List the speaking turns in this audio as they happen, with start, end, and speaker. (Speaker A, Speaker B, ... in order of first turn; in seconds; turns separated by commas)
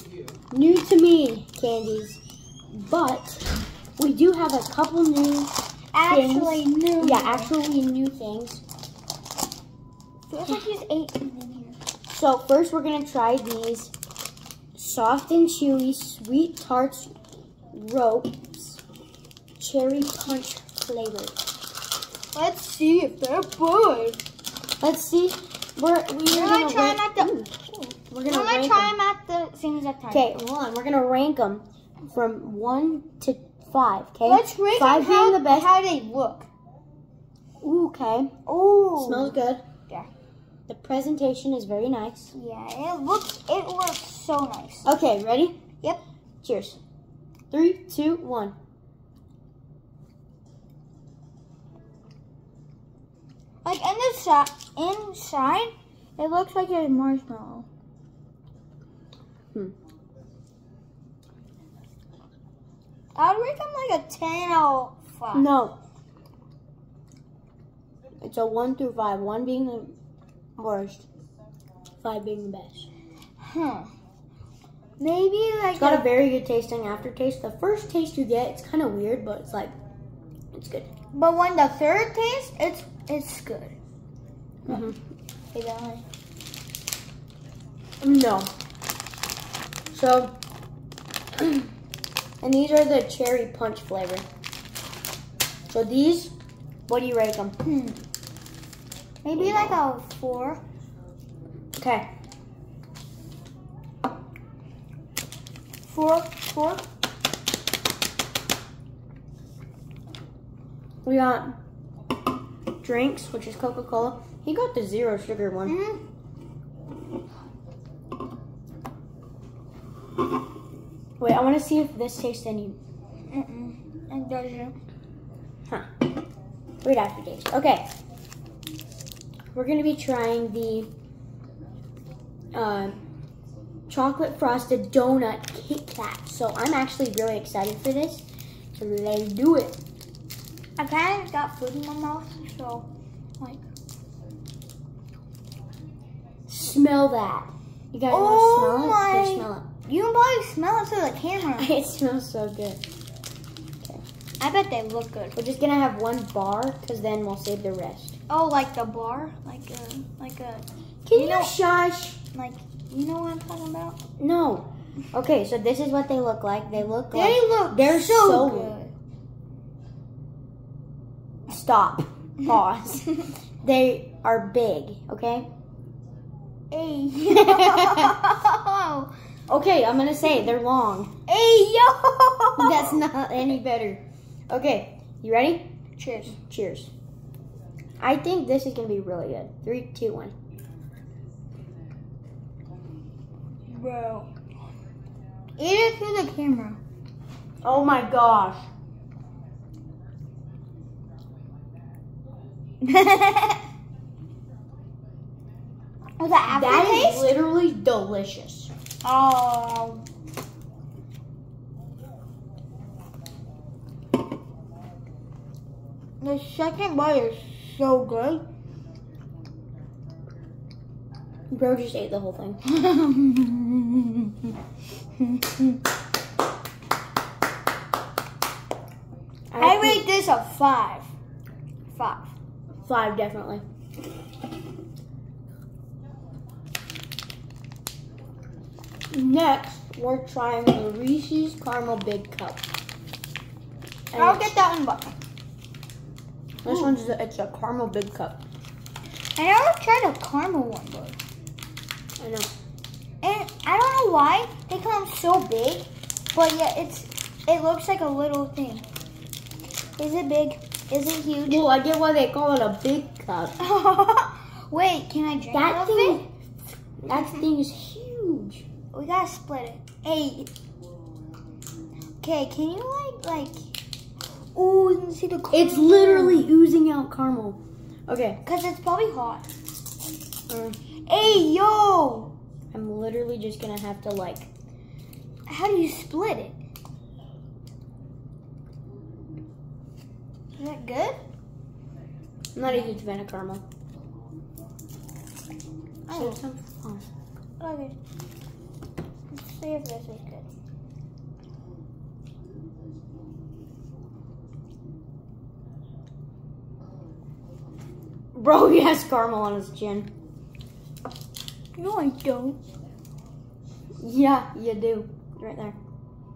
Speaker A: 0.5-2.2, Speaker A: 2.7-5.5, Speaker B: 5.9-7.5, Speaker A: 6.1-8.6, Speaker B: 10.3-11.8, Speaker A: 12.1-13.9, Speaker A: 14.8-17.1, Speaker A: 17.7-18.8, Speaker A: 19.6-21.4, Speaker B: 22.3-24.2, Speaker A: 24.8-27.5, Speaker B: 26.3-30.3, Speaker A: 28.1-28.9, Speaker A: 30.1-35.7, Speaker B: 34.2-36.5, Speaker A: 37.6-38.3, Speaker B: 38.5-40.1, Speaker A: 39.0-39.6, Speaker A: 40.7-42.3, Speaker B: 42.3-44.9, Speaker A: 44.8-45.6, Speaker A: 46.4-46.8, Speaker A: 47.5-48.5, Speaker B: 53.6-57.7, Speaker B: 63.1-65.5, Speaker A: 65.3-65.8, Speaker A: 68.2-69.9, Speaker A: 70.6-71.0, Speaker A: 72.0-72.9, Speaker B: 73.4-73.9, Speaker B: 75.0-76.0, Speaker A: 75.8-79.7, Speaker A: 80.5-80.9, Speaker B: 81.1-83.8, Speaker A: 84.7-85.0, Speaker B: 85.5-86.0, Speaker A: 88.0-88.5, Speaker A: 89.9-90.3, Speaker A: 92.4-94.2, Speaker A: 95.7-96.3, Speaker A: 96.9-97.6, Speaker B: 97.6-98.0, Speaker B: 99.2-100.6, Speaker A: 101.8-102.1, Speaker B: 105.8-106.8, Speaker A: 111.0-111.6, Speaker A: 112.8-115.8, Speaker B: 115.7-116.0, Speaker A: 121.2-122.8, Speaker B: 123.3-124.8, Speaker A: 126.8-127.9, Speaker A: 129.5-130.9, Speaker A: 132.5-133.0, Speaker A: 133.9-139.8, Speaker B: 140.8-143.6, Speaker A: 146.5-149.7, Speaker B: 148.1-151.7, Speaker A: 151.6-152.8, Speaker B: 154.4-155.3, Speaker A: 155.3-158.2, Speaker B: 158.3-161.5, Speaker A: 161.1-162.2, Speaker B: 162.3-164.0, Speaker A: 164.2-168.7, Speaker B: 167.1-168.9, Speaker A: 171.5-175.5, Speaker B: 176.7-179.1, Speaker A: 177.3-178.1, Speaker A: 179.5-181.1, Speaker B: 181.3-183.0, Speaker A: 182.6-185.7, Speaker B: 186.0-186.3, Speaker A: 186.3-186.9, Speaker A: 188.0-190.3, Speaker B: 193.7-194.3, Speaker B: 195.6-196.8, Speaker A: 197.6-198.7, Speaker B: 202.8-203.6, Speaker B: 206.2-207.3, Speaker A: 206.5-208.7, Speaker B: 209.0-210.1, Speaker B: 216.2-218.4, Speaker A: 221.5-222.6, Speaker B: 222.6-224.5, Speaker B: 225.2-225.8, Speaker A: 229.5-230.0, Speaker B: 229.6-231.1, Speaker B: 231.9-232.3, Speaker A: 232.8-233.6, Speaker A: 239.1-242.6, Speaker A: 244.1-244.6, Speaker B: 244.1-245.1, Speaker A: 246.6-248.4, Speaker B: 246.6-247.0, Speaker B: 249.3-251.2, Speaker A: 252.2-252.5, Speaker B: 253.2-258.9, Speaker B: 260.0-261.6, Speaker A: 261.5-263.6, Speaker B: 263.6-266.3, Speaker A: 265.5-266.3, Speaker A: 267.0-268.6, Speaker B: 268.9-270.5, Speaker B: 272.2-273.7, Speaker B: 274.5-276.5, Speaker A: 275.5-278.4, Speaker B: 278.4-279.5, Speaker A: 280.5-280.8, Speaker B: 281.1-282.3, Speaker A: 282.7-284.5, Speaker B: 285.4-286.6, Speaker B: 290.6-291.2, Speaker A: 292.5-293.6, Speaker B: 296.1-296.4, Speaker A: 296.1-297.1, Speaker B: 297.6-298.0, Speaker B: 299.3-300.5, Speaker A: 308.3-310.1, Speaker B: 311.8-312.6, Speaker A: 314.0-315.8